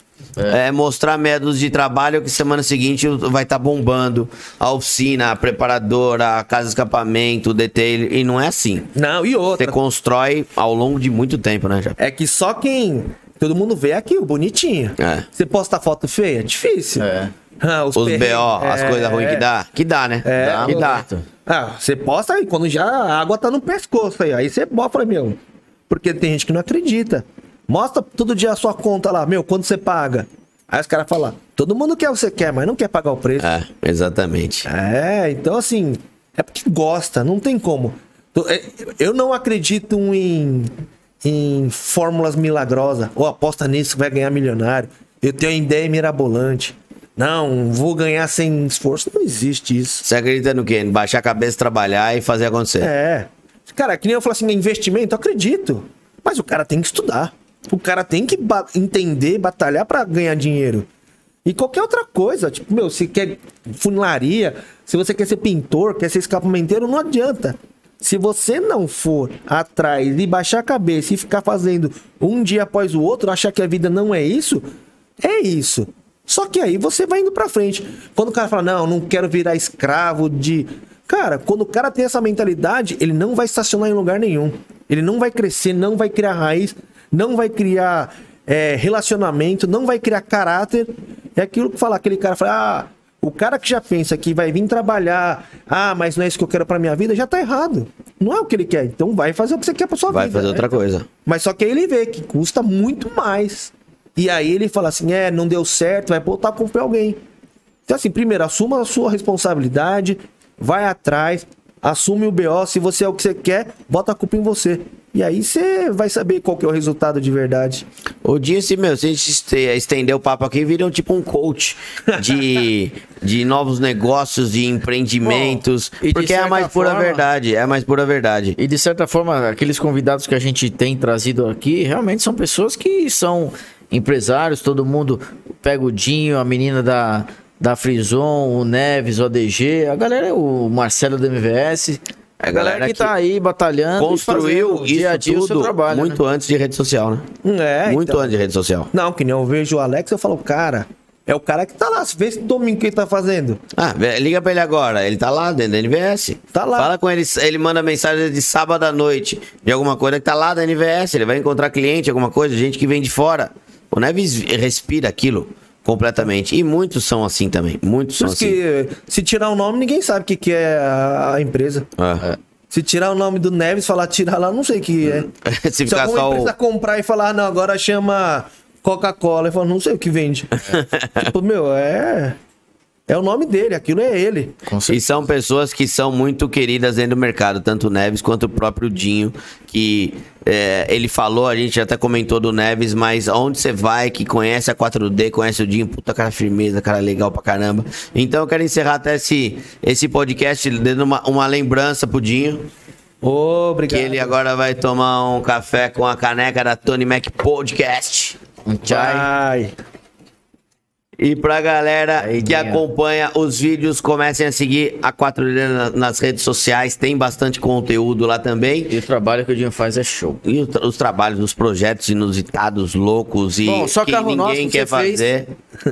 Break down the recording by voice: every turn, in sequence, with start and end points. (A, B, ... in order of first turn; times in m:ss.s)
0:00.5-0:08.9 A
0:08.9-0:09.8 B
0:09.6-0:12.0 A
0:12.0-0:17.1 B
0:15.0-0:15.3 A
0:17.0-0:17.3 C
0:17.6-0:19.4 B
0:17.9-0:21.1 A
0:20.2-0:33.5 B
0:20.4-0:21.2 C
0:33.4-0:34.7 A
0:34.7-0:50.0 B
0:50.0-0:52.9 A
0:52.8-1:00.9 B
1:01.4-1:14.6 B
1:15.2-1:47.2 B
1:40.1-1:41.1 A
1:47.9-1:57.8 B
1:58.2-2:08.6 A
2:05.2-2:07.2 C
2:08.6-2:26.2 C
2:22.4-2:23.1 A
2:24.0-2:27.3 A
2:27.4-2:28.3 B
2:27.8-2:28.9 A
2:28.9-2:33.6 B
2:33.7-2:48.6 A
2:36.5-2:36.9 B
2:48.1-2:51.9 B
2:52.0-2:52.3 A
2:52.7-2:55.3 B
2:55.0-2:56.5 A
2:55.9-3:02.4 B
3:00.7-3:01.3 A
3:03.1-3:04.6 B
3:04.6-3:05.1 C
3:04.9-3:22.7 A
3:23.2-3:24.4 B
3:23.9-3:28.4 A
3:28.6-3:29.3 C
3:28.9-3:29.7 B
3:31.2-3:39.0 A
3:32.2-3:32.8 C
3:38.9-3:40.4 C
3:40.4-3:45.5 A
3:43.6-3:45.3 C